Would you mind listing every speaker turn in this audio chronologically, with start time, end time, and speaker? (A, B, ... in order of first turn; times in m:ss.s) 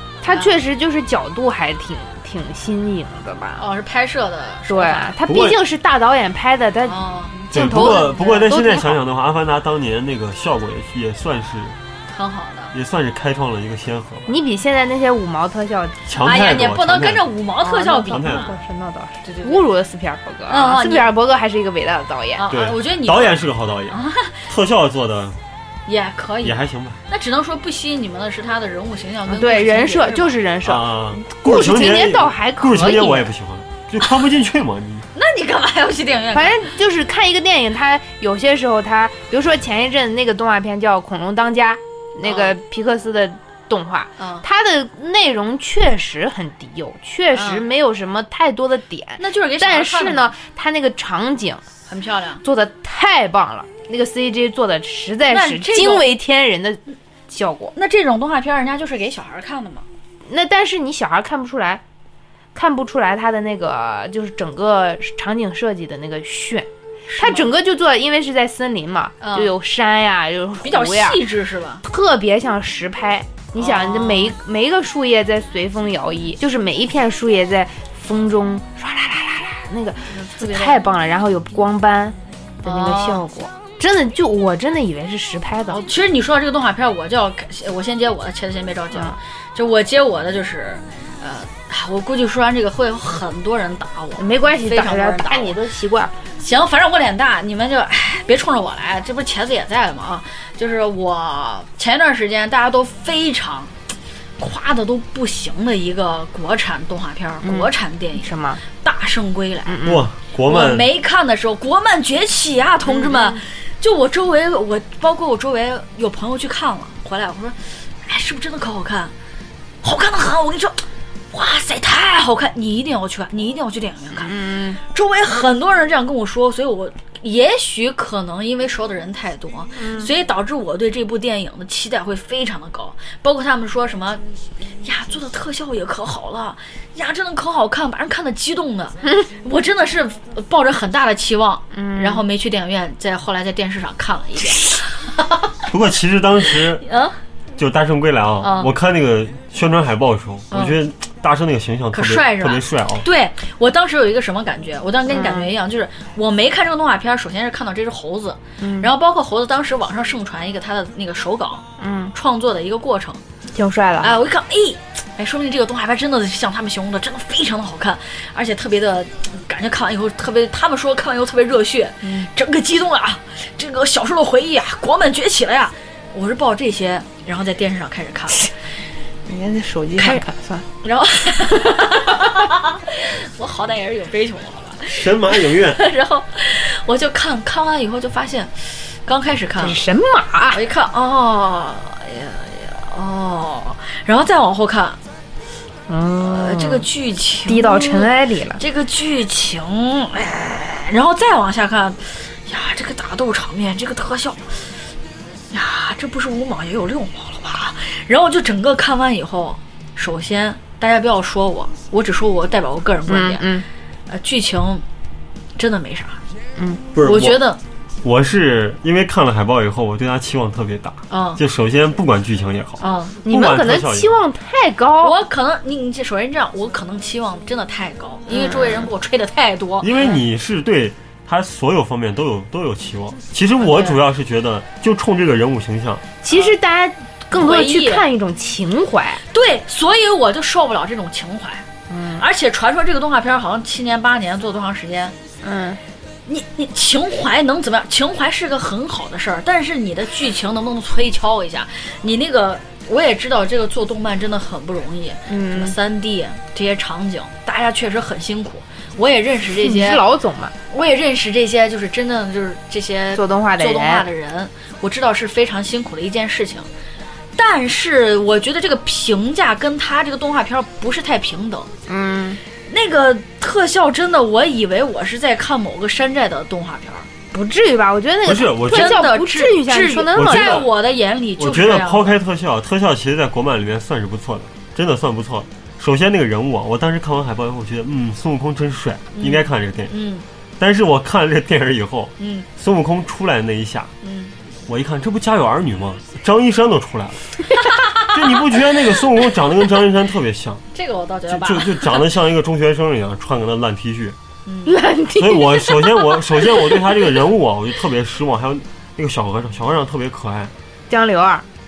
0:00.2-0:03.6 A
0:00.3-0:00.6 B
0:03.6-0:05.1 B
0:04.7-0:09.0 A
0:05.2-0:05.6 C
0:06.9-0:08.8 B
0:07.5-0:11.8 C
0:12.1-0:12.7 B
0:12.7-0:14.3 C
0:14.3-0:16.1 A
0:16.1-0:17.3 C
0:16.2-0:18.5 B
0:17.6-0:22.4 A
0:18.1-0:18.5 C
0:19.2-0:19.6 B
0:20.5-0:21.1 B
0:22.4-0:24.4 B
0:22.5-0:25.4 C
0:25.9-0:30.4 B
0:26.4-0:27.0 C
0:29.3-0:33.3 A
0:30.6-0:35.1 C
0:35.1-0:36.7 B
0:36.3-0:51.6 A
0:42.2-0:42.6 B
0:44.2-0:44.4 B
0:47.3-0:47.7 B
0:49.2-0:50.3 B
0:51.9-0:52.4 B
0:52.4-0:57.7 A
0:55.3-0:56.1 B
0:57.8-0:59.8 B
1:00.2-1:01.8 A
1:02.5-1:11.2 A
1:07.1-1:07.5 B
1:09.2-1:09.5 B
1:10.6-1:11.8 B
1:11.8-1:25.8 A
1:13.6-1:14.3 B
1:20.1-1:20.8 B
1:22.6-1:23.2 B
1:25.7-1:35.6 B
1:34.2-1:36.1 A
1:36.4-1:43.7 B
1:44.4-1:49.8 B
1:47.4-1:48.6 A
1:49.7-1:50.1 A
1:49.8-1:50.9 C
1:50.4-1:59.1 B
1:52.9-1:53.4 A
1:59.8-2:14.2 B
2:04.1-2:04.8 A
2:09.8-2:10.1 A
2:14.8-2:25.4 B
2:21.7-2:22.2 A
2:25.7-2:26.8 C
2:26.8-2:27.1 B
2:27.6-2:33.0 C
2:28.4-2:28.7 B
2:30.5-2:30.8 B
2:31.9-2:43.2 B
2:35.1-2:35.5 A
2:38.6-2:38.9 A
2:41.8-2:42.1 A
2:43.5-2:44.2 A
2:44.0-2:58.5 B
2:59.2-3:00.6 A
3:00.0-3:00.2 B
3:00.8-3:09.8 B
3:01.6-3:02.1 A
3:04.9-3:05.8 C
3:09.6-3:10.6 A
3:10.5-3:15.0 B
3:15.9-3:16.9 A
3:16.2-3:24.8 B
3:17.5-3:18.6 A
3:25.5-3:33.5 B
3:33.1-3:33.6 A
3:34.1-3:34.8 B
3:35.6-3:36.2 B
3:36.6-3:36.8 A
3:36.9-3:37.4 C
3:37.0-3:37.6 B
3:38.0-3:44.2 C
3:41.1-3:41.4 B
3:42.8-3:43.2 B
3:43.2-3:45.2 A
3:45.0-3:49.9 B
3:48.3-3:48.9 A
3:49.8-3:56.1 C
3:53.6-3:54.0 B
3:56.2-3:59.2 A
3:57.3-3:58.0 B
3:59.3-4:01.6 B
4:01.9-4:02.2 A
4:02.2-4:05.1 B
4:05.4-4:05.8 A
4:06.3-4:20.0 B
4:15.3-4:15.8 A
4:19.6-4:20.5 A
4:20.7-4:26.7 B
4:23.1-4:24.0 A
4:27.4-4:31.7 B
4:31.9-4:32.4 A
4:32.7-4:37.1 B
4:37.3-4:40.6 A
4:38.2-4:39.0 C
4:38.7-4:42.2 B
4:40.1-4:40.7 C
4:41.4-4:49.9 C
4:49.1-4:50.2 B
4:50.6-4:53.9 C
4:52.2-4:52.5 B
4:54.0-4:54.3 B
4:54.7-4:57.3 C
4:57.9-5:00.6 C
5:00.7-5:02.0 B
5:01.3-5:04.2 C
5:04.5-5:04.8 B
5:04.6-5:07.0 A
5:05.1-5:10.5 C
5:10.9-5:11.4 A